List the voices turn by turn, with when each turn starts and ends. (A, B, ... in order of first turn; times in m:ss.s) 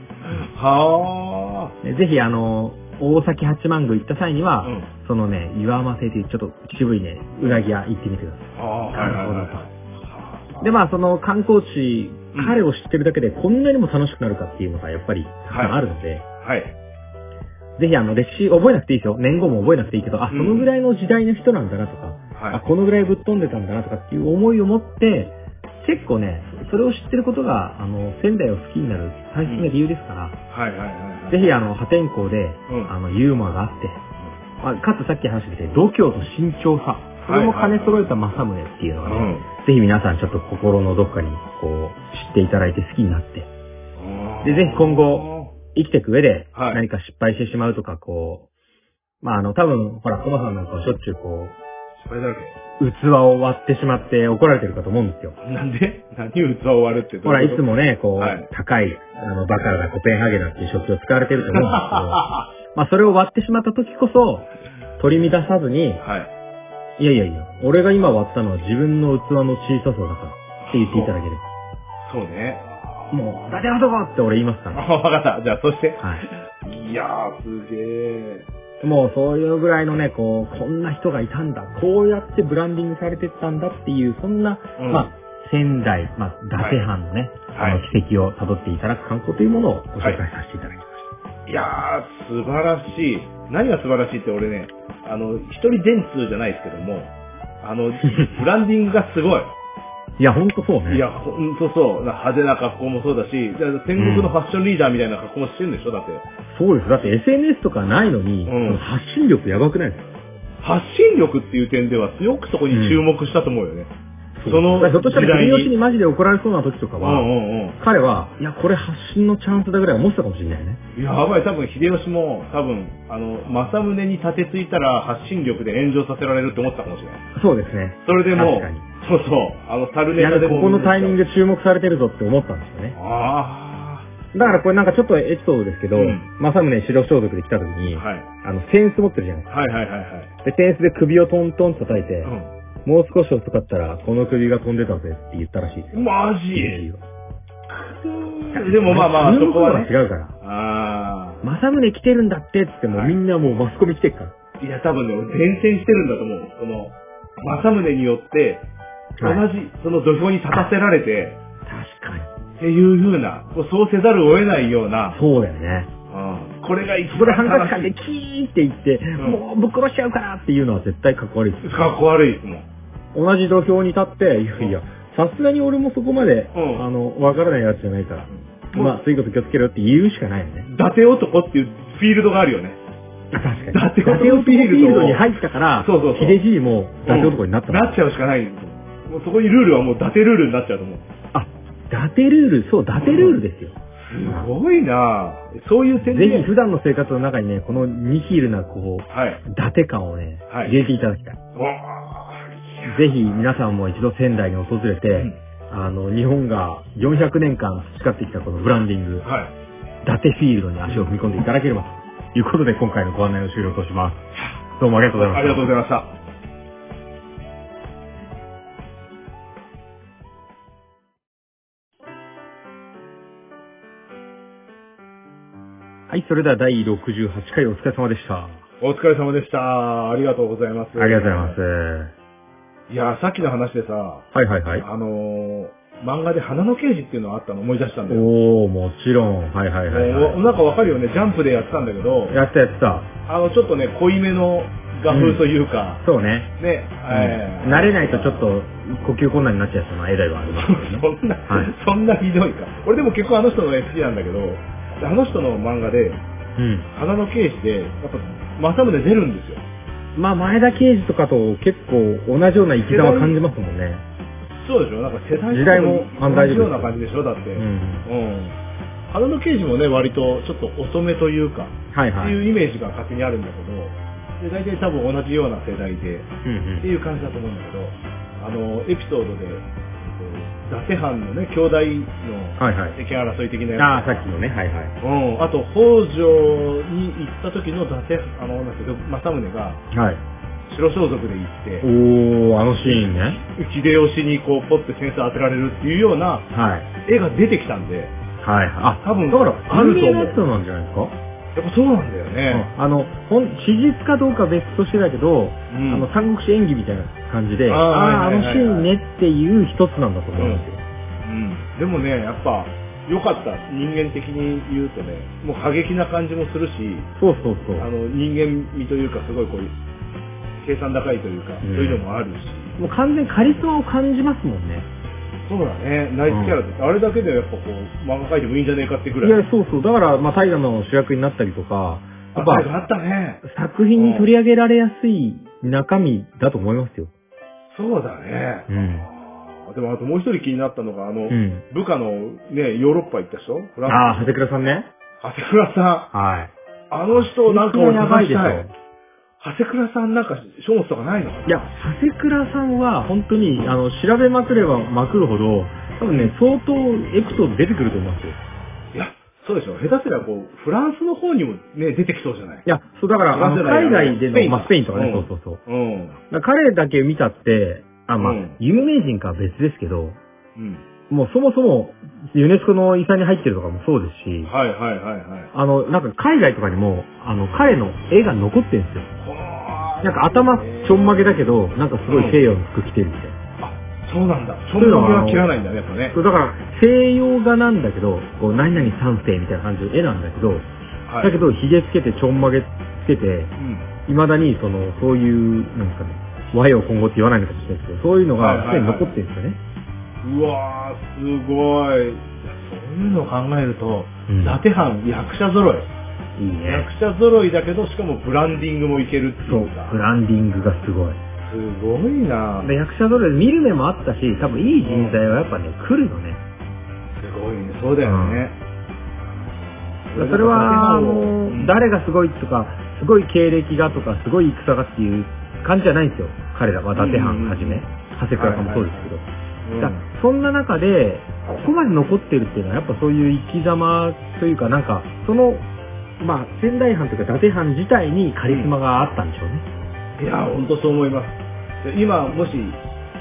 0:00.2-0:01.8 A
0:01.8-0:09.6 B
0:04.6-0:04.9 A
0:07.4-0:07.7 A
0:08.6-0:10.7 A
0:10.6-0:16.3 B
0:12.3-0:12.6 A
0:15.5-0:15.8 A
0:16.4-0:16.8 A
0:17.8-0:30.4 B
0:20.3-0:20.7 A
0:22.4-0:22.6 A
0:30.5-0:31.5 A
0:31.3-0:34.0 B
0:34.6-0:43.5 B
0:37.2-0:38.0 A
0:39.0-0:39.5 A
0:44.0-0:45.5 A
0:44.4-0:48.5 B
0:46.5-0:46.8 A
0:49.2-0:51.6 B
0:52.0-0:52.6 A
0:52.8-0:55.4 B
0:55.4-0:57.6 A
0:57.2-1:02.2 B
0:58.2-0:58.5 A
1:01.6-1:02.5 A
1:02.7-1:06.0 B
1:06.0-1:06.3 A
1:07.0-1:11.4 B
1:10.6-1:11.1 A
1:12.0-1:13.4 A
1:13.1-1:14.8 B
1:14.7-1:18.5 A
1:16.0-1:16.2 B
1:18.8-1:31.1 B
1:24.8-1:25.1 A
1:26.6-1:26.9 A
1:27.5-1:27.8 A
1:31.5-1:39.5 A
1:40.2-1:41.0 B
1:40.9-1:46.2 A
1:44.0-1:44.3 B
1:46.5-1:50.1 B
1:48.5-1:48.8 A
1:50.6-1:53.9 A
1:52.7-1:53.0 B
1:54.4-1:57.3 B
1:54.4-1:55.7 A
1:57.0-1:57.8 A
1:57.8-2:00.8 B
2:01.0-2:07.2 A
2:07.4-2:08.8 B
2:08.1-2:11.2 A
2:10.2-2:13.0 B
2:13.0-2:14.6 A
2:14.3-2:19.5 B
2:15.9-2:16.3 A
2:17.9-2:18.3 A
2:19.5-2:20.3 A
2:20.4-2:22.3 B
2:22.2-2:22.5 A
2:22.8-2:27.0 B
2:25.9-2:26.8 A
2:27.7-2:31.4 A
2:28.5-2:30.4 B
2:31.4-2:34.4 B
2:32.9-2:33.2 A
2:34.6-2:38.7 A
2:39.2-2:41.4 A
2:39.2-2:39.4 B
2:41.7-2:42.3 B
2:42.6-2:45.2 A
2:45.1-2:45.9 B
2:46.1-2:47.9 A
2:47.1-2:51.8 B
2:51.6-2:52.7 A
2:53.1-3:00.7 B
2:56.5-2:56.9 A
2:58.3-2:59.0 A
3:00.7-3:02.8 A
3:03.3-3:08.0 B
3:03.7-3:06.4 A
3:07.0-3:11.1 A
3:11.3-3:14.5 B
3:13.0-3:13.4 A
3:14.0-3:16.5 A
3:16.0-3:21.4 B
3:19.1-3:19.4 A
3:20.5-3:20.8 A
3:21.6-3:23.2 A
3:22.9-3:29.3 B
3:29.2-3:29.5 A
3:30.0-3:34.3 B
3:34.8-3:35.7 B
3:35.2-3:36.2 A
3:46.1-3:48.6 B
3:48.8-3:51.6 A
3:51.0-3:52.1 B
3:52.9-3:58.3 A
3:54.3-3:54.9 B
3:58.1-4:00.4 B
3:59.9-4:02.4 A
4:02.3-4:03.1 B
4:03.3-4:06.0 A
4:05.1-4:05.4 B
4:06.0-4:06.5 B
4:06.6-4:08.5 A
4:07.1-4:11.7 B
4:10.5-4:16.2 A
4:16.6-4:16.9 B
4:16.9-4:19.6 A
4:20.2-4:24.0 B
4:22.8-4:23.4 A
4:24.5-4:28.6 A
4:25.5-4:26.9 B
4:27.6-4:28.1 B
4:29.1-4:44.3 A
4:31.9-4:32.4 B
4:36.4-4:36.9 B
4:42.6-4:43.0 B
4:43.8-4:45.0 B
4:45.0-4:49.8 A
4:49.9-4:50.2 B
4:50.7-4:51.9 A
4:51.8-4:53.4 B
4:52.8-4:56.5 A
4:56.5-4:56.9 B
4:57.0-4:58.2 A
4:58.4-5:01.2 B
4:59.0-5:00.4 A
5:01.6-5:02.7 A
5:02.5-5:10.8 B
5:05.7-5:06.1 A
5:07.7-5:08.9 A
5:10.4-5:10.6 A
5:11.2-5:17.1 A
5:17.2-5:17.9 B
5:17.8-5:19.8 A
5:20.6-5:22.8 A
5:21.6-5:22.0 B
5:22.8-5:24.9 B
5:25.4-5:29.5 A
5:26.3-5:26.6 B
5:29.2-5:32.8 B
5:32.3-5:33.4 A
5:33.4-5:37.1 B
5:34.0-5:34.3 A
5:37.7-5:44.4 A
5:38.7-5:39.1 B
5:41.3-5:41.6 B
5:43.9-5:44.9 B
5:45.2-5:46.1 A
5:46.1-5:46.5 B
5:46.9-5:48.7 A
5:47.2-5:48.7 B
5:49.4-5:51.7 A
5:51.5-5:58.4 B
5:56.1-5:56.3 A
5:58.9-6:02.7 A
6:02.7-6:05.6 B
6:03.3-6:06.2 A
6:06.3-6:10.2 B
6:08.2-6:08.6 A
6:10.6-6:10.9 A
6:11.1-6:14.5 B
6:14.4-6:15.5 A
6:15.5-6:19.1 B
6:19.2-6:21.5 A
6:20.0-6:23.4 B
6:22.1-6:22.4 A
6:23.6-6:26.2 A
6:24.8-6:25.5 B
6:26.1-6:30.7 B
6:28.6-6:29.0 A
6:31.1-6:31.4 A
6:31.2-6:33.5 B
6:33.6-6:33.9 A
6:34.1-6:39.6 B
6:38.4-6:39.2 A
6:40.2-6:45.9 A
6:44.3-6:44.6 B
6:46.4-6:46.9 B
6:46.6-6:50.0 A
6:49.5-6:51.2 B
6:51.4-6:52.8 A
6:52.6-6:56.4 B
6:54.8-6:55.2 A
6:57.2-6:58.6 A
6:58.0-6:58.4 B
6:59.3-7:01.8 A
7:00.2-7:09.3 B
7:07.0-7:09.1 A
7:09.6-7:10.1 A
7:09.8-7:15.7 B
7:16.2-7:19.6 B
7:18.5-7:18.7 A
7:20.2-7:22.8 A